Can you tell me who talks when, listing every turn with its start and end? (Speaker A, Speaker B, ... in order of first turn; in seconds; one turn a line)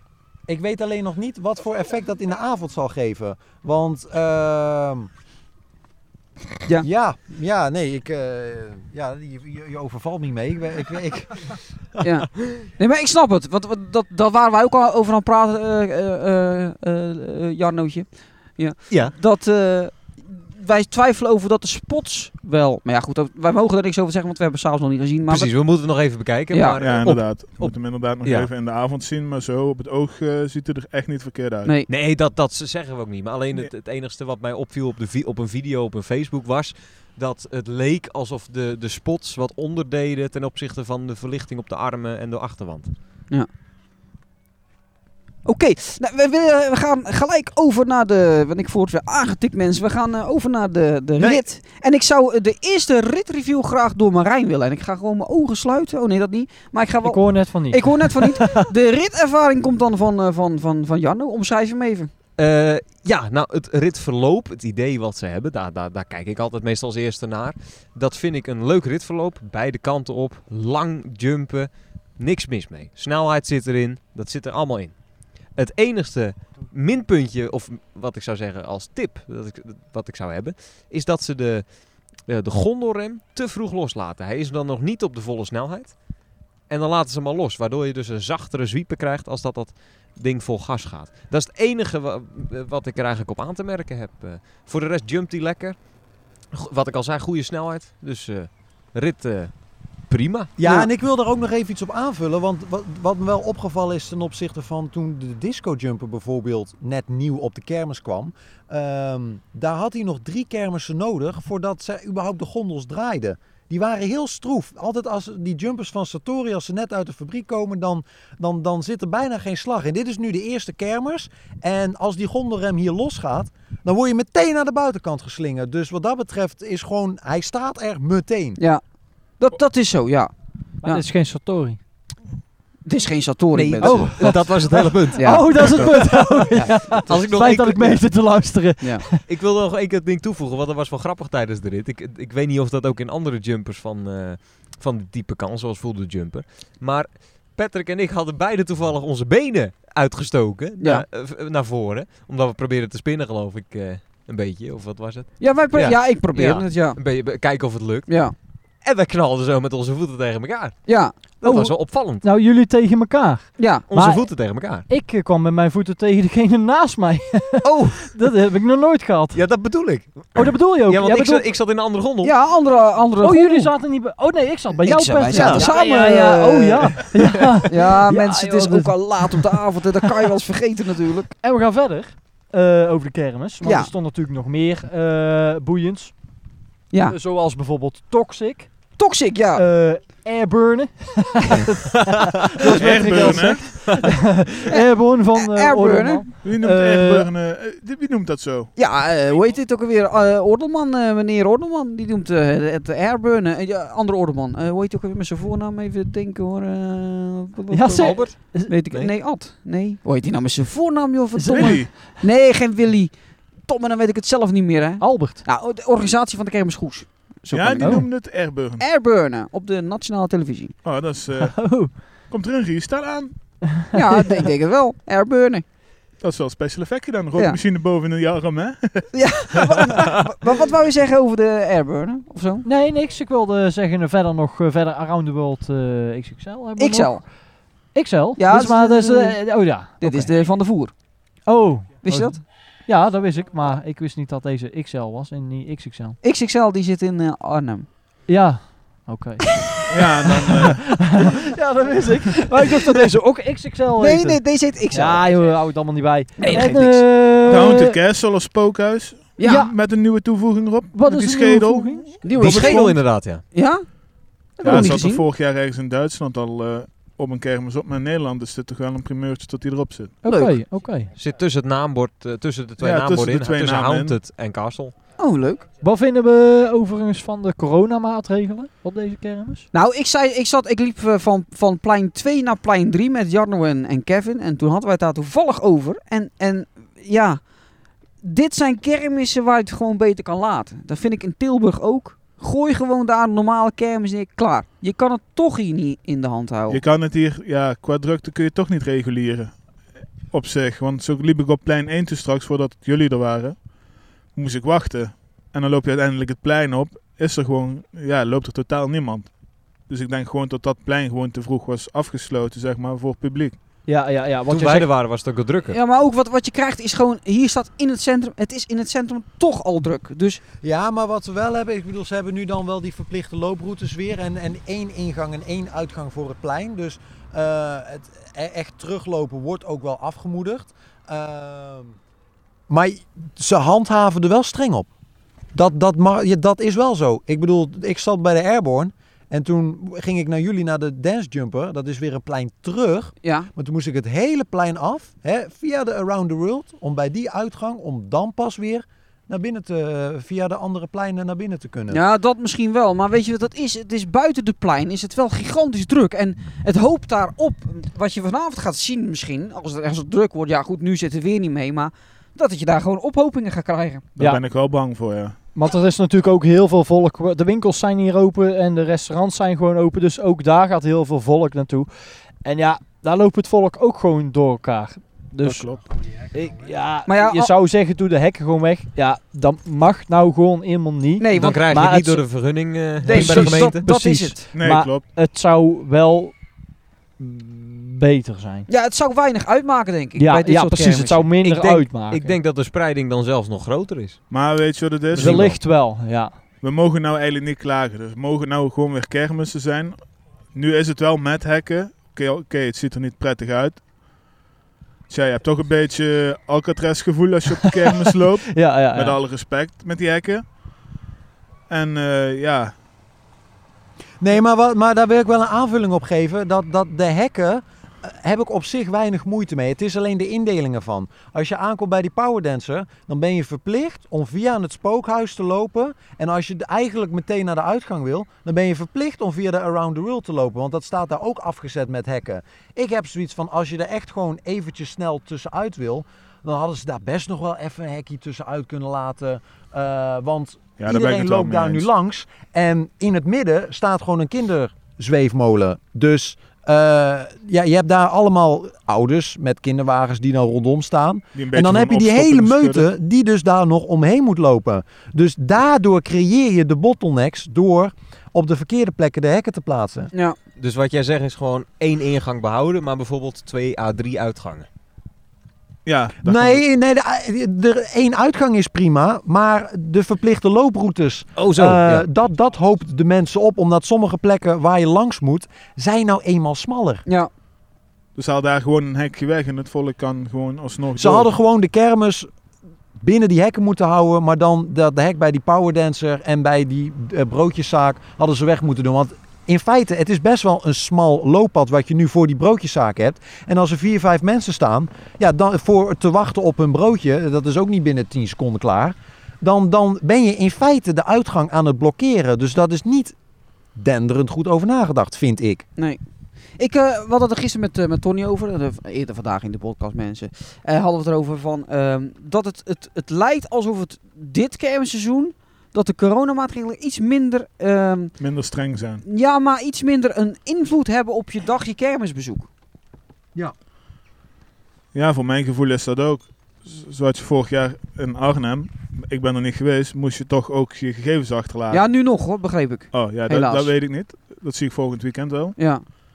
Speaker A: 0.5-5.1
Speaker A: 6.8-12.0
Speaker B: 12.0-25.8
Speaker C: 18.9-19.1
Speaker C: 25.3-28.5
Speaker B: 26.5-26.8
Speaker D: 26.8-31.8
Speaker C: 31.9-42.9
Speaker B: 45.5-62.1
Speaker E: 57.0-58.6
Speaker C: 62.4-86.0
Speaker C: 86.7-95.8
Speaker C: 96.5-100.5
Speaker A: 100.6-128.6
Speaker B: 100.6-100.9
Speaker B: 129.4-130.3
Speaker E: 130.8-131.8
Speaker B: 132.8-134.3
Speaker C: 133.5-138.1
Speaker E: 133.8-139.2
Speaker B: 135.2-135.8
Speaker B: 138.8-139.1
Speaker C: 139.2-158.2
Speaker B: 150.8-151.1
Speaker B: 155.4-157.0
Speaker B: 158.1-158.3
Speaker C: 158.8-160.8
Speaker B: 160.9-161.2
Speaker C: 161.4-162.2
Speaker E: 161.4-164.2
Speaker B: 163.6-163.9
Speaker C: 163.9-164.8
Speaker E: 164.9-169.6
Speaker C: 167.6-168.2
Speaker C: 169.3-172.3
Speaker E: 170.3-171.5
Speaker B: 172.2-173.7
Speaker E: 173.2-179.6
Speaker B: 174.8-177.0
Speaker C: 175.3-175.7
Speaker B: 177.7-181.3
Speaker E: 181.4-186.2
Speaker B: 183.6-183.9
Speaker B: 186.9-187.2
Speaker E: 187.1-188.9
Speaker B: 189.0-189.6
Speaker E: 189.5-197.3
Speaker D: 192.8-193.8
Speaker C: 193.6-194.0
Speaker B: 194.7-196.3
Speaker D: 196.4-198.7
Speaker B: 198.8-218.3
Speaker E: 207.7-208.7
Speaker C: 208.0-208.4
Speaker E: 211.3-212.1
Speaker D: 211.5-211.9
Speaker E: 215.0-215.4
Speaker D: 217.5-218.8
Speaker E: 217.8-218.1
Speaker B: 218.8-220.8
Speaker D: 220.8-223.3
Speaker E: 221.4-221.9
Speaker E: 223.8-224.4
Speaker B: 223.9-225.6
Speaker D: 226.2-230.0
Speaker B: 229.1-232.7
Speaker E: 232.7-237.3
Speaker B: 236.8-237.2
Speaker E: 237.9-240.3
Speaker B: 238.4-239.5
Speaker B: 240.0-240.9
Speaker E: 241.5-246.2
Speaker B: 242.0-242.4
Speaker B: 246.2-247.9
Speaker E: 248.3-249.5
Speaker D: 249.9-250.9
Speaker E: 250.2-258.0
Speaker B: 252.5-253.1
Speaker B: 254.0-255.3
Speaker B: 256.4-257.2
Speaker D: 257.4-262.8
Speaker B: 259.4-259.7
Speaker E: 259.4-259.7
Speaker E: 260.9-262.3
Speaker B: 262.2-263.9
Speaker C: 262.3-263.4
Speaker B: 264.6-265.2
Speaker D: 264.6-270.2
Speaker E: 270.2-271.1
Speaker B: 270.3-270.6
Speaker C: 271.2-274.9
Speaker D: 272.8-274.2
Speaker B: 275.2-275.7
Speaker E: 275.8-279.7
Speaker B: 279.7-287.4
Speaker B: 288.2-296.8
Speaker D: 296.7-303.7
Speaker D: 304.3-309.3
Speaker D: 309.9-313.6
Speaker E: 313.9-314.9
Speaker C: 314.5-315.8
Speaker B: 315.7-320.4
Speaker A: 320.6-332.0
Speaker A: 332.7-334.9
Speaker A: 335.5-352.0
Speaker B: 343.2-343.5
Speaker B: 351.9-364.1
Speaker D: 364.2-365.4
Speaker E: 365.6-382.2
Speaker D: 375.4-375.8
Speaker B: 377.1-377.5
Speaker B: 381.2-382.2
Speaker C: 381.3-383.8
Speaker E: 383.0-386.5
Speaker B: 383.0-384.4
Speaker D: 384.5-385.0
Speaker E: 387.2-388.7
Speaker B: 388.7-391.3
Speaker E: 390.2-392.4
Speaker C: 391.4-394.2
Speaker D: 394.3-395.6
Speaker C: 395.1-395.6
Speaker E: 395.1-396.4
Speaker D: 396.6-403.9
Speaker D: 405.1-410.4
Speaker E: 407.5-409.2
Speaker D: 411.7-412.7
Speaker A: 414.2-460.1
Speaker D: 440.8-441.9
Speaker D: 451.3-452.9
Speaker B: 460.1-460.4
Speaker C: 460.6-464.7
Speaker D: 465.9-466.6
Speaker A: 466.2-477.0
Speaker C: 471.4-472.1
Speaker D: 478.2-481.3
Speaker A: 481.0-482.3
Speaker A: 483.0-503.2
Speaker A: 503.8-505.7
Speaker B: 506.6-518.1
Speaker D: 518.2-519.0
Speaker B: 519.1-522.5
Speaker D: 524.9-531.9
Speaker B: 531.7-533.7
Speaker D: 532.9-535.6
Speaker B: 535.6-535.8